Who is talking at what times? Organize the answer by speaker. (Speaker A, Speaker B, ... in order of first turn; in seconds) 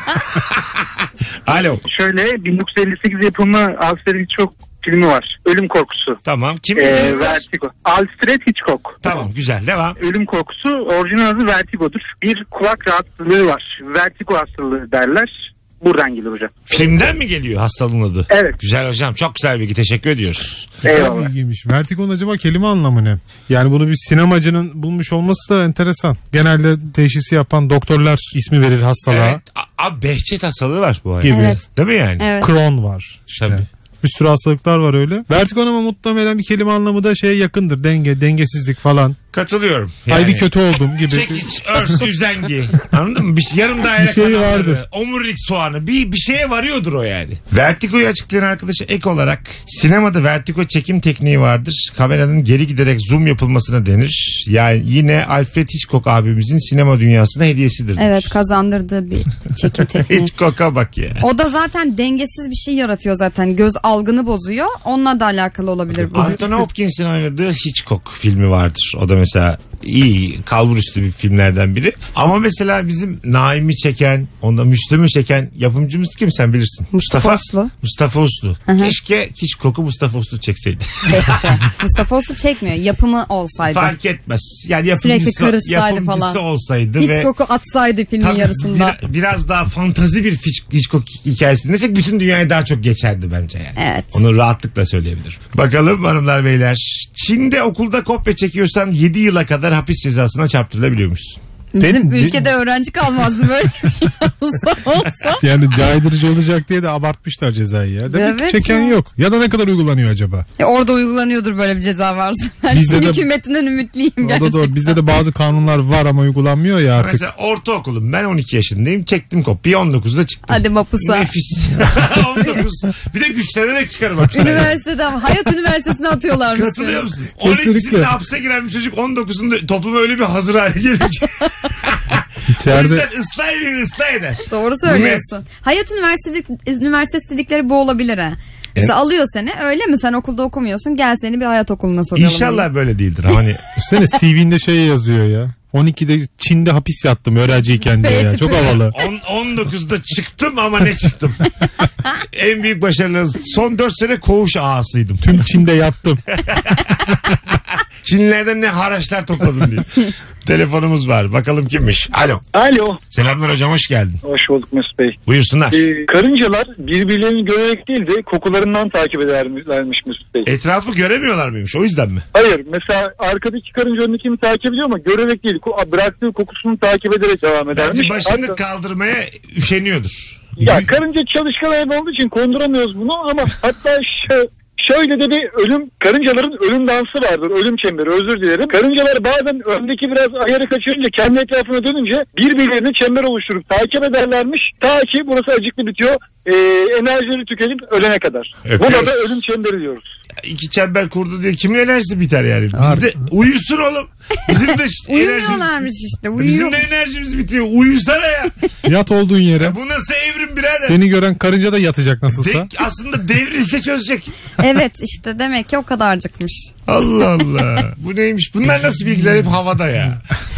Speaker A: 0.4-1.8, 6.2-7.5, 9.0-10.0, 16.7-20.8, 29.1-32.3, 33.4-33.6, 39.3-40.5, 41.0-58.4, 60.1-61.2, 66.1-81.5, 83.7-87.3, 88.2-101.4, 117.0-124.8, 126.5-135.3, 142.1-143.6, 148.9-151.4, 152.3-155.4, 156.5-156.9, 158.0-162.4, 163.1-164.2, 165.3-165.8, 170.5-172.2, 177.7-180.6, 198.7-199.3, 200.4-205.7, 206.4-208.5, 209.6-211.0, 212.3-214.3, 216.9-220.2
Speaker B: 1.9-6.2, 6.8-9.1, 10.0-16.5, 20.9-21.3
Speaker C: 20.8-29.4, 31.2-31.6, 32.4-39.2, 40.1-41.4, 44.0-44.8, 101.8-102.5, 105.4-110.5, 112.7-113.2, 114.2-117.2, 127.4-128.1, 132.5-133.1, 143.8-148.9, 155.2-156.2, 180.6-180.9, 202.8-203.1, 208.9-209.8, 210.8-212.7
Speaker D: 31.3-31.6, 32.2-32.5, 58.0-60.3, 61.2-66.4, 76.9-77.7, 78.7-78.9, 81.1-83.9, 85.0-86.4, 87.0-89.0, 93.8-94.2, 101.8-105.4, 108.1-109.0, 110.6-115.0, 120.5-121.3, 124.3-127.0, 134.5-142.7, 148.0-148.9, 205.1-206.8, 214.6-216.7
Speaker E: 162.5-163.0, 164.2-165.2, 165.7-170.5, 172.3-178.6, 180.6-200.1